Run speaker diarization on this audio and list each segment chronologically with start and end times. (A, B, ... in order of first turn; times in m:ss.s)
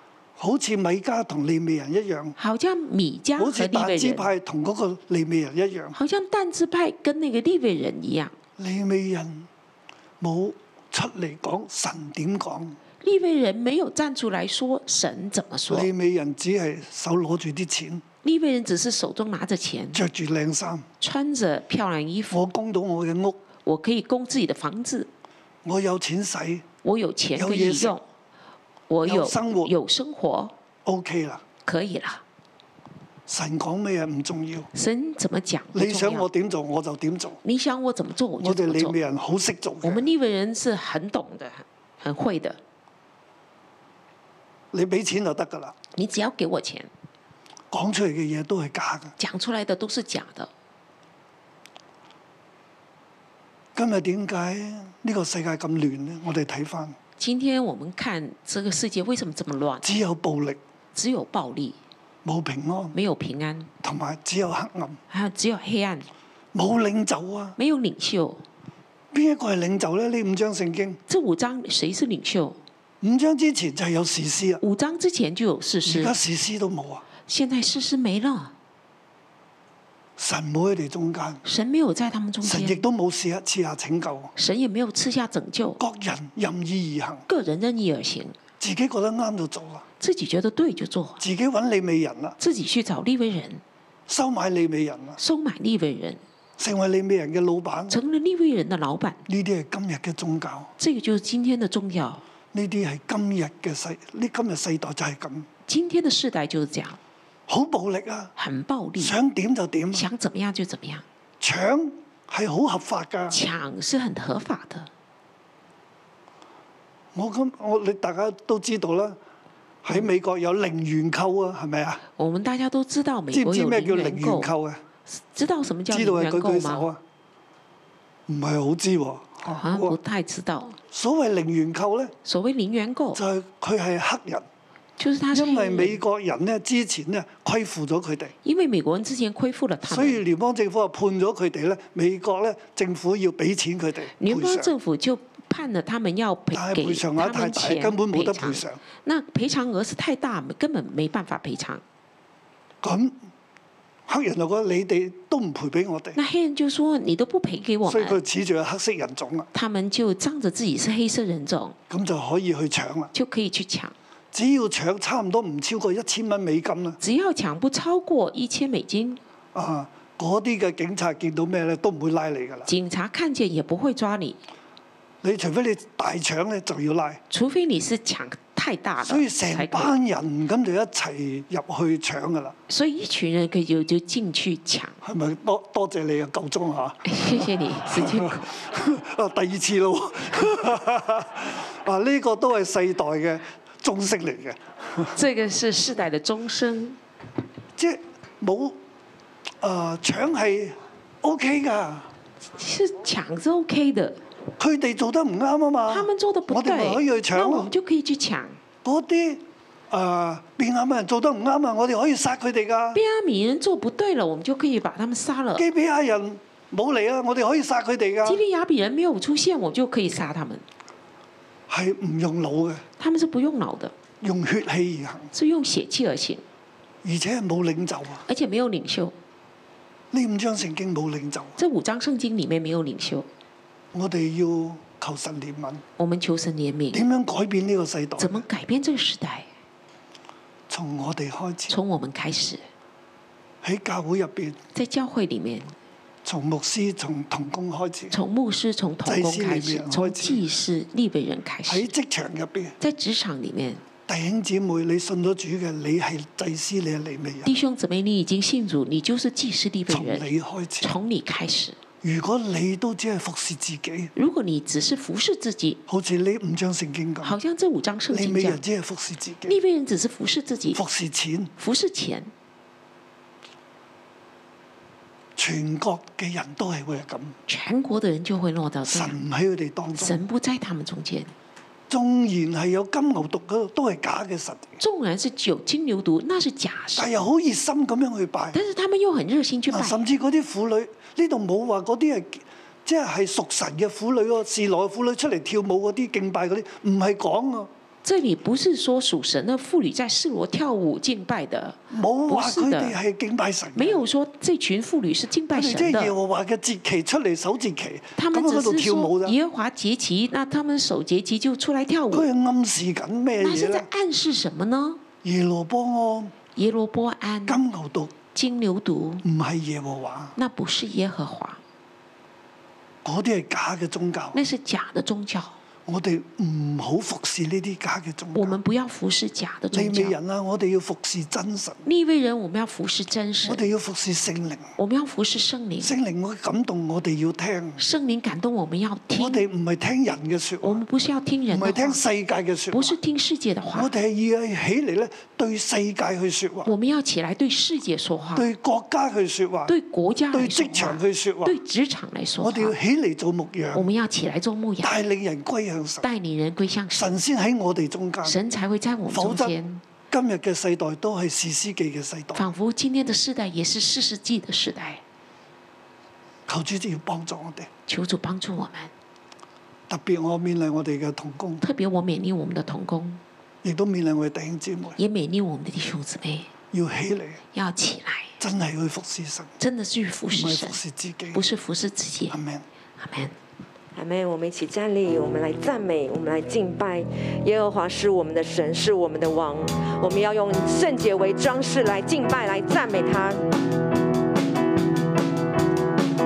0:00.4-0:02.4 A
0:02.4-0:04.3 B
0:03.4-0:05.9 A
0:05.9-0:08.3 B
0:08.6-0:09.5 A
0:10.2-0:12.8 A
0:13.0-0:15.9 B
0:15.7-0:18.0 A
0:18.2-0:20.0 B
0:19.9-0:20.8 A
0:21.0-0:22.4 B
0:22.3-0:23.4 A
0:23.6-0:25.1 B
0:25.6-0:26.6 A
0:26.8-0:28.0 B
0:27.3-0:28.0 A
0:28.9-0:30.5 B
0:29.0-0:29.7 A
0:30.8-0:31.4 A
0:31.6-0:32.2 B
0:33.3-0:34.7 A
0:34.7-0:36.3 B
0:35.7-0:37.4 A
0:37.4-0:39.0 B
0:38.4-0:40.0 A
0:39.8-0:42.6 B
0:44.7-0:45.7 A
0:46.0-0:46.9 B
0:47.7-0:49.1 A
0:49.2-0:50.5 B
0:53.7-0:57.0 A
0:57.2-0:59.8 B
0:59.8-1:00.6 A
1:00.9-1:01.8 B
1:02.2-1:02.9 A
1:02.9-1:03.7 B
1:03.8-1:05.0 A
1:05.1-1:06.1 B
1:06.5-1:07.6 A
1:07.6-1:08.4 B
1:09.1-1:11.0 A
1:11.1-1:12.6 B
1:13.0-1:14.6 A
1:14.6-1:16.1 B
1:15.8-1:17.0 A
1:17.3-1:18.5 B
1:20.2-1:21.4 A
1:21.4-1:22.8 B
1:22.4-1:24.3 A
1:24.4-1:25.8 B
1:25.8-1:27.2 A
1:27.3-1:28.4 B
1:28.6-1:29.8 A
1:30.0-1:31.2 B
1:31.2-1:32.4 A
1:32.4-1:33.6 B
1:34.1-1:35.2 A
1:35.2-1:36.2 B
1:36.6-1:38.0 A
1:37.9-1:39.2 B
1:39.3-1:40.7 A
1:40.8-1:42.2 B
1:42.5-1:45.5 A
1:45.7-1:47.0 B
1:47.5-1:48.3 A
1:48.4-1:49.1 B
1:49.0-1:50.1 A
1:49.9-1:51.0 B
1:51.4-1:53.4 A
1:53.3-1:54.9 B
1:57.1-1:59.2 A
1:59.8-2:02.0 A
2:02.2-2:04.5 B
2:03.3-2:04.8 A
2:05.1-2:06.9 B
2:05.9-2:07.0 A
2:08.3-2:10.0 A
2:09.5-2:10.8 B
2:10.9-2:12.1 A
2:12.2-2:13.2 B
2:13.1-2:14.4 A
2:15.0-2:16.0 B
2:15.3-2:18.3 A
2:18.4-2:20.2 B
2:19.9-2:24.7 A
2:24.2-2:31.8 B
2:26.5-2:28.8 A
2:32.8-2:33.2 A
2:34.1-2:36.2 A
2:36.1-2:38.2 B
2:37.8-2:39.5 A
2:39.5-2:41.8 B
2:41.9-2:43.1 A
2:43.1-2:43.9 B
2:44.3-2:47.0 A
2:47.0-2:49.2 B
2:49.5-2:52.7 A
2:52.7-2:54.4 B
2:55.2-2:57.2 A
2:57.3-2:59.9 B
2:59.0-3:02.6 A
3:02.7-3:05.0 B
3:05.0-3:07.0 A
3:07.0-3:08.4 B
3:07.8-3:15.2 A
3:15.1-3:17.0 B
3:17.8-3:18.8 A
3:19.6-3:22.1 A
3:22.6-3:24.2 B
3:24.6-3:27.7 A
3:25.9-3:28.6 B
3:28.8-3:33.0 A
3:32.9-3:35.6 B
3:35.6-3:38.4 A
3:38.2-3:40.6 B
3:41.7-3:42.8 A
3:43.0-3:43.9 B
3:44.2-3:45.3 A
3:45.3-3:46.4 B
3:47.0-3:48.2 A
3:48.3-3:49.1 B
3:50.1-3:51.6 A
3:51.6-3:53.3 B
3:53.9-3:55.8 A
3:56.0-3:57.0 B
3:56.9-3:58.4 A
3:58.2-3:59.5 B
4:00.7-4:01.8 A
4:01.7-4:02.6 B
4:03.6-4:04.6 A
4:04.7-4:05.7 B
4:06.2-4:08.2 A
4:08.1-4:11.9 B
4:09.0-4:10.4 A
4:11.7-4:12.8 A
4:12.8-4:13.8 B
4:14.1-4:17.5 A
4:17.4-4:20.3 B
4:19.9-4:20.9 A
4:20.8-4:21.8 B
4:22.0-4:24.1 A
4:24.1-4:25.8 B
4:25.9-4:27.4 A
4:27.2-4:28.6 B
4:28.1-4:29.6 A
4:29.4-4:30.8 B
4:30.7-4:31.5 A
4:31.6-4:32.3 B
4:35.4-4:37.4 A
4:37.5-4:39.2 B
4:38.8-4:40.2 A
4:40.0-4:41.3 B
4:41.9-4:44.7 A
4:44.8-4:47.1 B
4:47.0-4:48.6 A
4:48.5-4:50.0 B
4:49.7-4:57.7 A
4:58.0-5:03.0 B
5:01.9-5:04.0 A
5:03.8-5:06.1 B
5:05.5-5:09.4 A
5:08.2-5:12.3 B
5:12.1-5:13.9 A
5:13.4-5:15.0 B
5:15.2-5:16.3 A
5:16.6-5:17.6 B
5:17.5-5:18.1 A
5:18.3-5:19.2 B
5:19.2-5:20.4 A
5:20.4-5:21.6 B
5:23.0-5:24.4 A
5:24.3-5:25.6 B
5:25.8-5:28.6 A
5:28.3-5:30.2 B
5:29.7-5:31.8 A
5:31.8-5:33.6 B
5:33.4-5:34.7 A
5:34.8-5:35.9 B
5:35.8-5:37.8 A
5:37.8-5:39.4 B
5:39.1-5:40.8 A
5:40.6-5:42.0 B
5:41.5-5:43.0 A
5:42.7-5:43.9 B
5:43.7-5:46.7 A
5:46.6-5:48.4 B
5:48.3-5:49.7 A
5:49.7-5:52.8 B
5:50.3-5:51.6 A
5:52.4-5:53.9 A
5:53.7-5:54.9 B
5:54.8-5:56.1 A
5:56.0-5:57.1 B
5:56.9-5:58.4 A
5:58.2-5:59.8 B
5:59.1-5:59.6 A
6:00.1-6:02.5 A
6:02.3-6:05.0 B
6:06.5-6:07.7 A
6:07.9-6:08.9 B
6:09.9-6:11.6 A
6:11.6-6:13.2 B
6:13.6-6:15.0 A
6:15.0-6:16.5 B
6:16.7-6:17.4 A
6:17.5-6:18.3 B
6:18.4-6:19.5 A
6:19.6-6:20.8 B
6:20.3-6:21.4 A
6:21.3-6:22.4 B
6:22.3-6:22.6 A
6:23.0-6:23.3 B
6:23.9-6:33.4 C